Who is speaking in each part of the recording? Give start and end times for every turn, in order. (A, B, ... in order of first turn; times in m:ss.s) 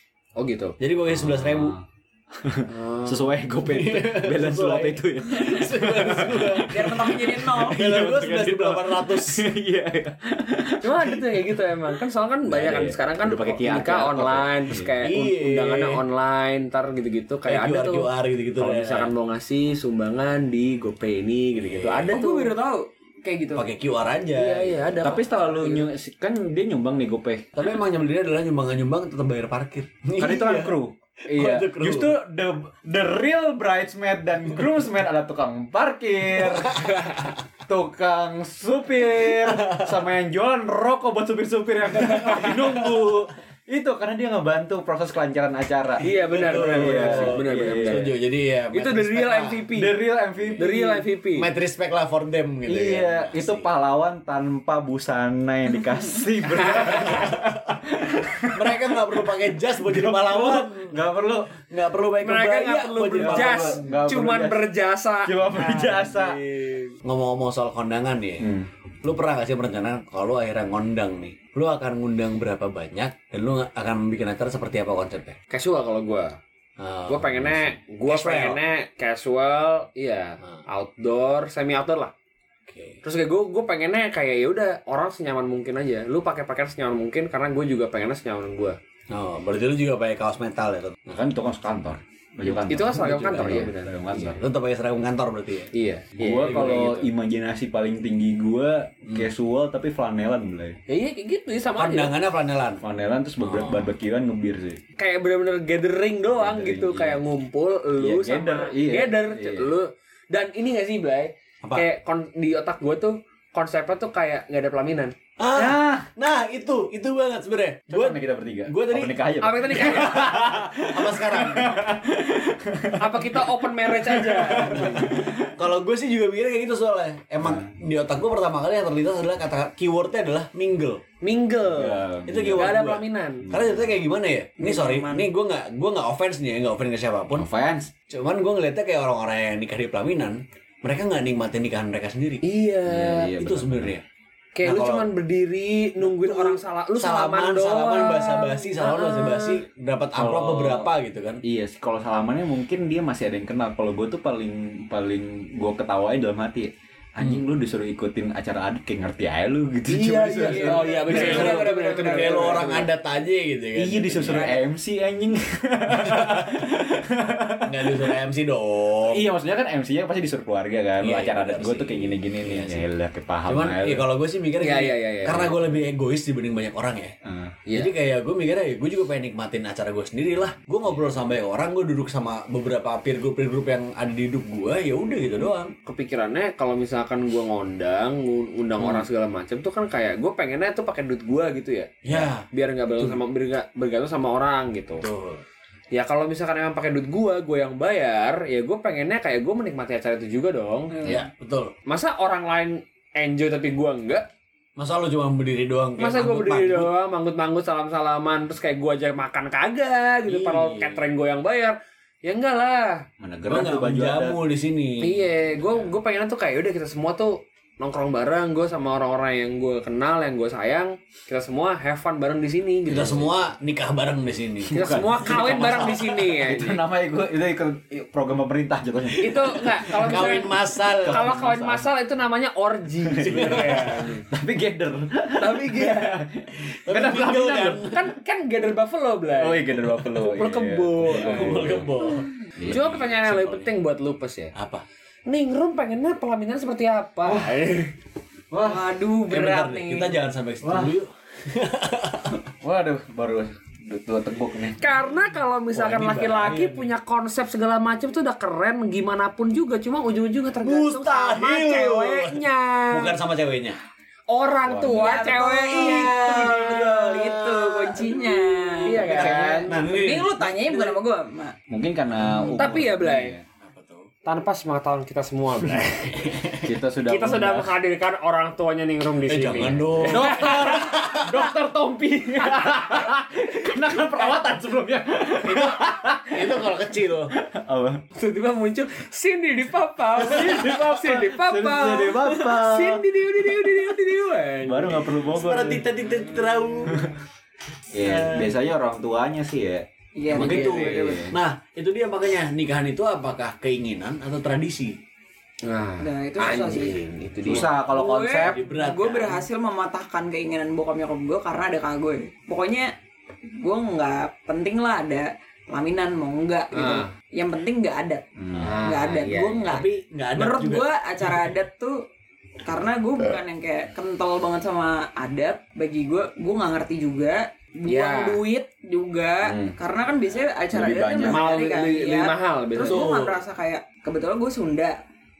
0:00.4-0:00.8 A
0:00.8-0:01.8 B
0:01.1-0:01.8 C
0:02.4-0:11.4 C
0:02.7-0:03.3 A
0:03.6-0:09.4 B
0:06.7-0:07.8 D
0:10.8-0:22.5 A
0:12.4-0:14.9 C
0:15.0-0:16.0 B
0:17.4-0:19.1 B
0:21.6-0:22.2 B
0:22.1-0:23.6 D
0:23.5-0:25.1 B
0:24.4-0:25.8 A
0:25.0-0:27.5 C
0:27.6-0:30.7 B
0:30.2-0:48.1 C
0:31.3-0:32.1 B
0:39.4-0:39.9 B
0:42.4-0:43.0 B
0:46.0-0:48.1 A
0:46.0-0:49.7 B
0:48.7-0:49.9 A
0:49.7-0:50.9 C
0:50.5-0:53.7 B
0:50.6-0:51.5 A
0:52.6-1:01.6 C
0:56.6-0:57.6 B
0:58.5-1:01.0 B
1:01.6-1:03.8 B
1:02.2-1:05.6 A
1:03.2-1:04.7 C
1:05.2-1:06.4 C
1:05.6-1:06.4 B
1:07.0-1:08.5 B
1:08.4-1:08.7 C
1:09.0-1:15.4 B
1:15.5-1:16.4 A
1:16.8-1:18.6 B
1:17.1-1:22.1 A
1:22.7-1:23.0 B
1:23.0-1:28.8 A
1:29.1-1:31.1 B
1:31.1-1:34.4 C
1:32.7-1:34.4 A
1:34.4-1:35.7 B
1:35.7-1:37.1 A
1:36.2-1:40.8 C
1:40.9-1:42.1 A
1:41.8-1:42.8 B
1:42.8-1:44.8 C
1:43.4-1:43.9 B
1:45.0-1:55.2 A
1:46.4-1:47.2 C
1:48.0-1:49.7 C
1:55.4-1:59.1 B
1:55.5-1:56.1 C
1:57.9-2:05.5 C
1:59.4-2:00.2 A
1:59.7-2:01.8 B
2:03.0-2:05.2 A
2:04.8-2:11.0 B
2:07.4-2:07.7 C
2:11.2-2:12.0 A
2:11.6-2:12.9 C
2:12.2-2:17.5 B
2:12.5-2:13.5 A
2:13.4-2:13.9 C
2:14.6-2:15.3 D
2:17.3-2:17.9 C
2:18.1-2:22.4 B
2:22.4-2:23.3 A
2:22.9-2:23.9 C
2:23.4-2:24.0 B
2:24.6-2:29.6 A
2:24.6-2:25.0 B
2:26.0-2:31.4 B
2:30.1-2:30.9 C
2:31.4-2:40.9 C
2:39.9-2:42.9 A
2:40.5-2:42.9 D
2:40.8-2:44.6 B
2:43.8-2:48.1 C
2:44.3-2:44.6 D
2:46.0-2:46.6 B
2:47.6-2:49.2 B
2:49.1-2:54.0 C
2:51.0-2:52.9 B
2:53.4-2:57.1 B
2:54.6-2:55.6 A
2:57.2-2:57.6 C
2:57.7-2:57.9 A
2:57.7-3:05.7 B
3:05.9-3:15.1 A
3:12.0-3:12.4 B
3:15.0-3:15.4 B
3:15.9-3:21.0 A
3:20.9-3:21.2 D
3:21.0-3:21.7 B
3:21.9-3:24.2 A
3:24.8-3:26.9 B
3:26.0-3:33.0 A
3:30.2-3:31.0 B
3:33.2-3:34.4 C
3:33.5-3:35.2 B
3:35.0-3:43.3 A
3:42.9-3:44.8 B
3:44.6-3:51.9 C
3:44.7-3:46.8 A
3:45.3-3:45.9 B
3:49.2-3:51.3 B
3:49.2-3:54.2 A
3:53.1-3:58.0 C
3:53.2-3:54.0 B
3:55.4-3:56.2 A
3:56.9-3:58.0 B
3:57.9-4:01.8 A
3:59.4-4:01.9 C
4:01.0-4:03.6 B
4:02.6-4:03.4 C
4:02.6-4:04.5 A
4:04.5-4:04.8 B
4:05.3-4:07.9 A
4:07.2-4:07.5 C
4:08.5-4:12.5 B
4:08.6-4:10.1 D
4:10.6-4:10.9 C
4:12.6-4:14.8 C
4:14.8-4:23.2 A
4:15.7-4:16.9 B
4:20.6-4:23.8 B
4:24.3-4:26.4 A
4:24.7-4:25.2 C
4:24.8-4:31.5 D
4:25.3-4:31.0 B
4:28.8-4:29.7 A
4:29.0-4:29.8 C
4:31.7-4:33.4 C
4:32.2-4:32.5 B
4:32.5-4:33.3 A
4:33.6-4:34.1 B
4:34.2-4:36.3 A
4:36.2-4:36.7 B
4:36.5-4:37.7 C
4:37.0-4:40.8 A
4:39.3-4:41.5 B
4:39.6-4:46.7 C
4:45.4-4:47.3 B
4:47.3-4:48.0 C
4:48.1-4:55.2 A
4:50.2-4:53.6 C
4:54.6-4:55.8 C
4:55.3-4:57.1 B
4:56.9-4:57.1 C
4:57.9-5:01.3 C
4:58.0-4:58.5 B
5:00.2-5:01.3 D
5:00.3-5:05.0 B
5:05.6-5:07.7 A
5:06.0-5:06.9 D
5:07.4-5:08.6 C
5:07.8-5:12.9 D
5:08.4-5:09.4 B
5:13.6-5:22.0 D
5:16.7-5:17.1 A
5:18.4-5:18.8 C
5:18.6-5:19.7 A
5:19.7-5:20.9 B
5:22.6-5:34.9 D
5:27.9-5:28.4 A
5:29.4-5:29.8 C
5:30.7-5:31.4 C
5:31.2-5:33.1 A
5:32.8-5:33.4 B